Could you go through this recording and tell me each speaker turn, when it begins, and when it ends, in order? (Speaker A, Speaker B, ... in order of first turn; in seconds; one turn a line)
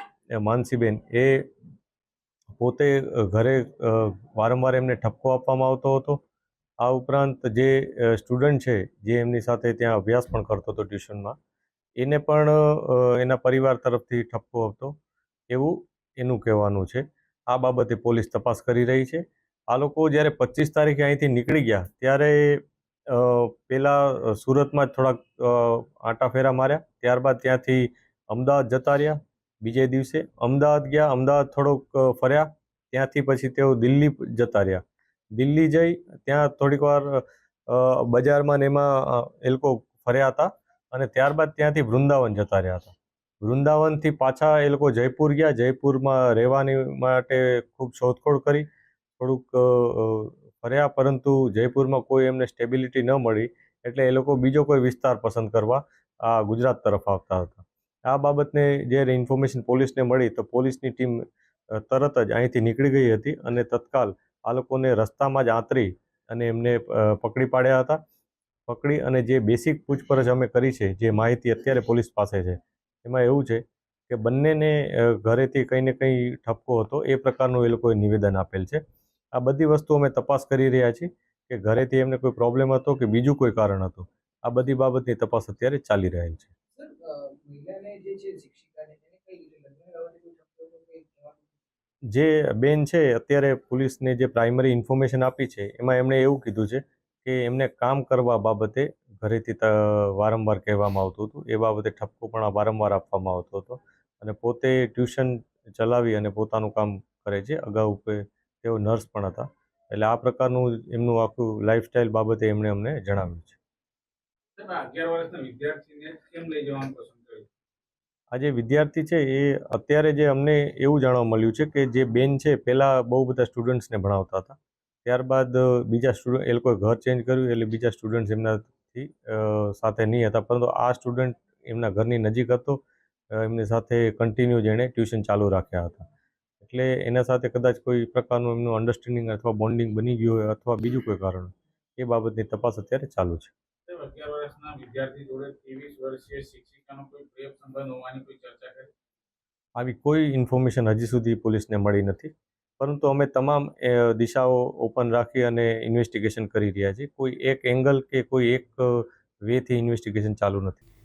Speaker A: 0.4-1.5
Speaker A: 2.5-6.2
Speaker A: 6.8-11.3
Speaker A: 12.0-15.0
Speaker A: 15.5-34.8
Speaker A: 35.3-48.6
Speaker A: 49.2-68.0
Speaker A: 68.7-78.8
Speaker A: 79.3-86.5
Speaker B: 86.7-91.6
Speaker A: 92.1-113.6
Speaker C: 114.6-117.5
Speaker A: 118.3-136.1
Speaker A: 136.6-143.5
Speaker C: 143.9-148.9
Speaker A: 149.8-160.8